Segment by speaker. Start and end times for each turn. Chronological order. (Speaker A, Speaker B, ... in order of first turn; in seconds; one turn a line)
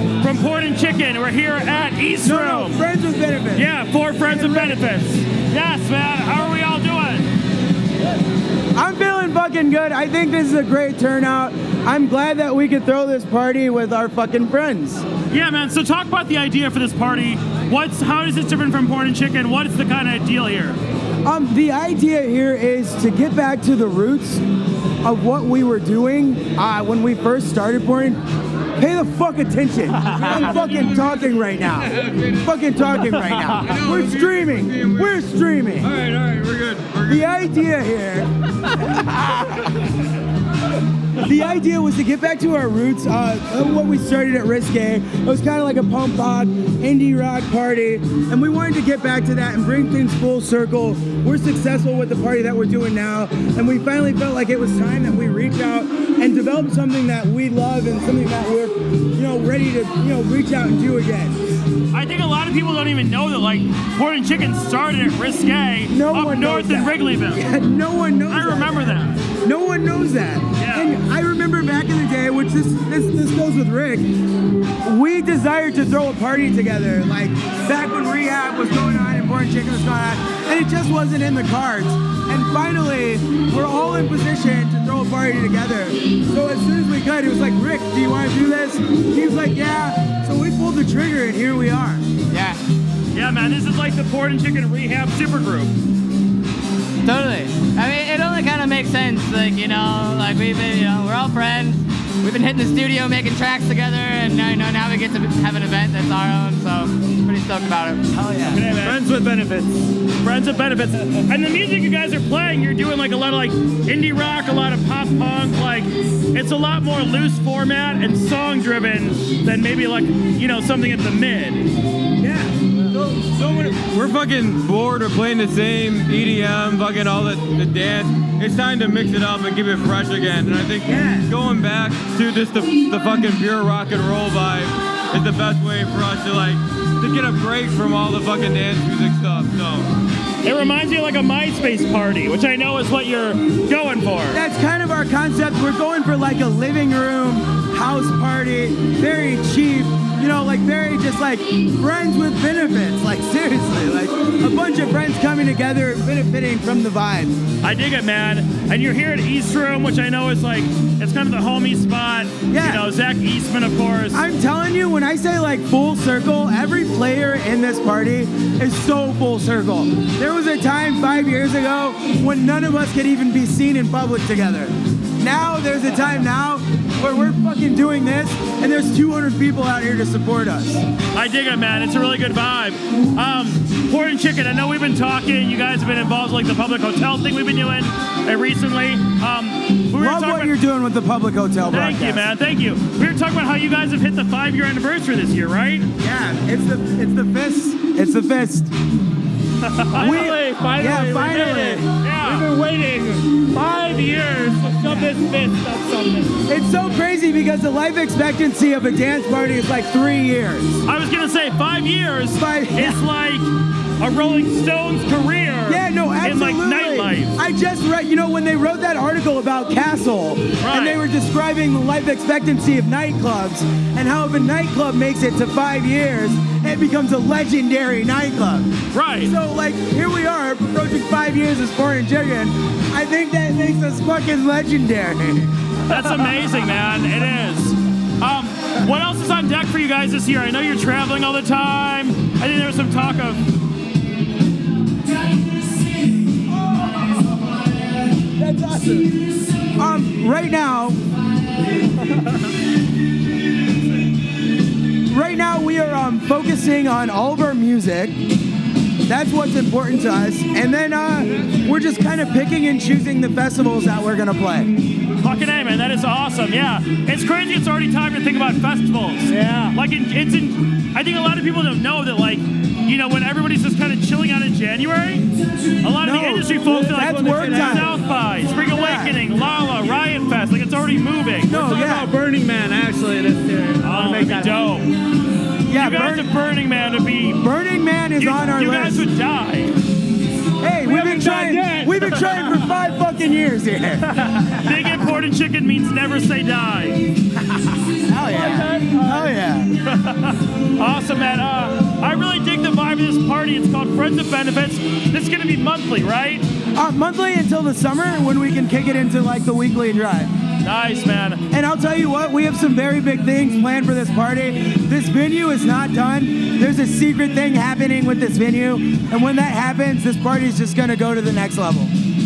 Speaker A: 0.2-2.8
Speaker B: 2.2-3.7
Speaker A: 3.5-7.3
Speaker B: 4.2-4.9
Speaker B: 8.7-15.0
Speaker A: 15.3-20.8
Speaker B: 21.2-24.4
Speaker B: 25.0-28.2
Speaker B: 28.8-35.9
Speaker C: 33.6-35.2
Speaker C: 35.8-37.3
Speaker B: 37.0-39.6
Speaker B: 41.2-61.4
Speaker A: 61.9-67.5
Speaker B: 65.9-74.1
Speaker A: 68.3-69.2
Speaker A: 70.6-70.9
Speaker B: 74.8-92.0
Speaker A: 93.1-95.7
Speaker D: 97.1-108.1
Speaker B: 108.1-108.6
Speaker A: 108.5-109.0
Speaker C: 108.8-109.3
Speaker A: 110.2-121.6
Speaker B: 122.2-123.3
Speaker C: 123.3-139.9
Speaker B: 130.8-131.3
Speaker A: 140.4-144.4
Speaker B: 144.3-157.4
Speaker A: 157.6-164.2
Speaker B: 162.5-162.9
Speaker B: 164.1-180.8
Speaker A: 181.1-190.6
Speaker B: 189.9-192.3
Speaker A: 191.7-195.9
Speaker B: 196.0-198.7
Speaker A: 199.6-200.3
Speaker B: 199.9-201.8
Speaker E: 200.0-206.4
Speaker A: 202.0-202.5
Speaker B: 204.8-205.2
Speaker B: 206.5-210.8
Speaker A: 210.8-217.3
Speaker B: 212.3-213.0
Speaker B: 215.7-228.7
Speaker A: 220.6-221.0
Speaker A: 228.9-229.3
Speaker B: 229.2-236.4
Speaker A: 235.9-243.4
Speaker B: 246.5-247.1
Speaker B: 248.4-249.1
Speaker B: 249.8-251.0
Speaker B: 255.1-258.1
Speaker B: 259.1-264.7
Speaker A: 265.2-275.2
Speaker E: 269.3-269.7
Speaker A: 275.8-281.6
Speaker B: 276.0-277.9
Speaker E: 276.7-277.9
Speaker B: 278.7-279.2
Speaker B: 281.5-282.1
Speaker E: 281.5-284.8
Speaker A: 283.8-284.9
Speaker B: 285.7-286.3
Speaker A: 285.7-287.4
Speaker B: 287.3-289.0
Speaker A: 288.2-289.7
Speaker B: 290.6-294.6
Speaker E: 290.8-292.6
Speaker A: 294.5-297.0
Speaker B: 298.0-299.7
Speaker E: 298.2-299.3
Speaker A: 299.8-306.4
Speaker B: 306.7-310.3
Speaker A: 310.6-311.4
Speaker B: 311.5-321.9